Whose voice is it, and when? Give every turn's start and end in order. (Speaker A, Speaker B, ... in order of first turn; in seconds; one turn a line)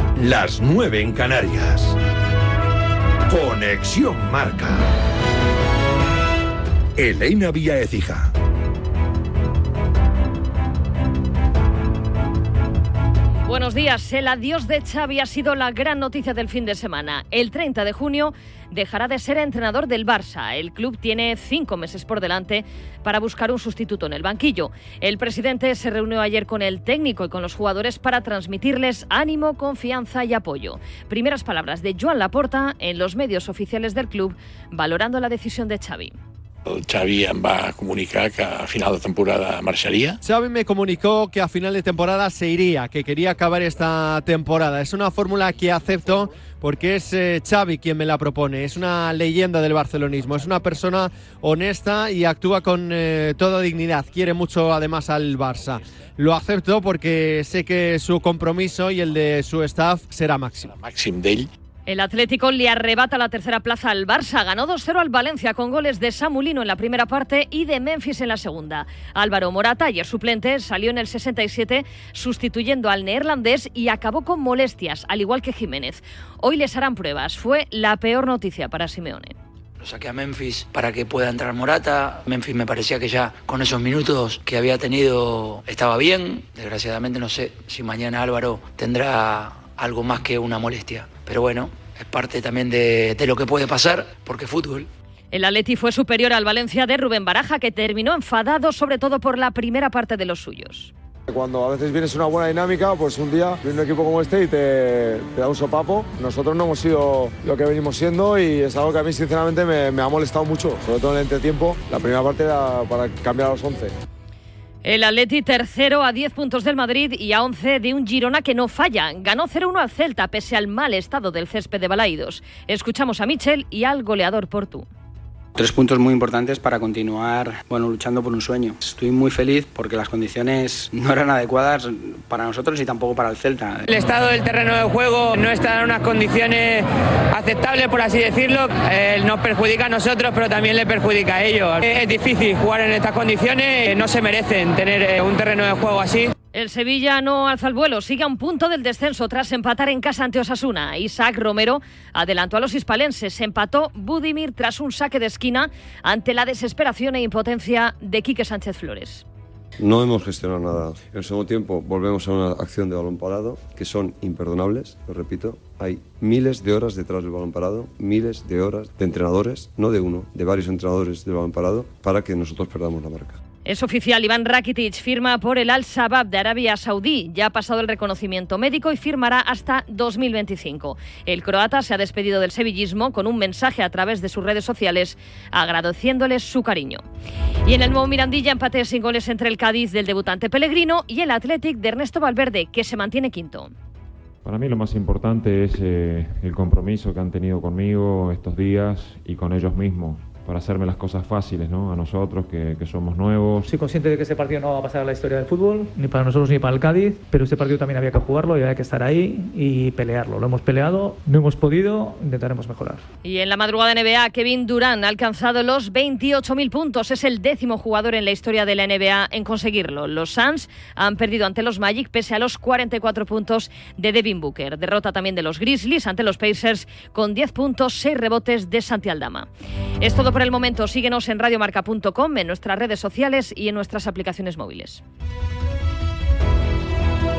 Speaker A: 0.2-2.0
Speaker A: 3.3-4.9
Speaker A: 7.0-8.3
Speaker B: 13.5-36.1
Speaker C: 36.7-40.2
Speaker D: 40.2-60.7
Speaker C: 60.7-61.5
Speaker B: 61.9-79.3
Speaker E: 79.8-94.9
Speaker B: 95.3-100.9
Speaker F: 101.3-113.9
Speaker B: 114.8-124.9
Speaker G: 125.6-133.9
Speaker H: 133.9-146.3
Speaker B: 146.5-159.2
Speaker I: 159.8-173.4
Speaker B: 173.7-187.0
Speaker B: 187.7-193.7
Speaker J: 194.4-203.7
Speaker K: 203.7-213.0
Speaker B: 213.2-229.5
Speaker B: 230.0-235.0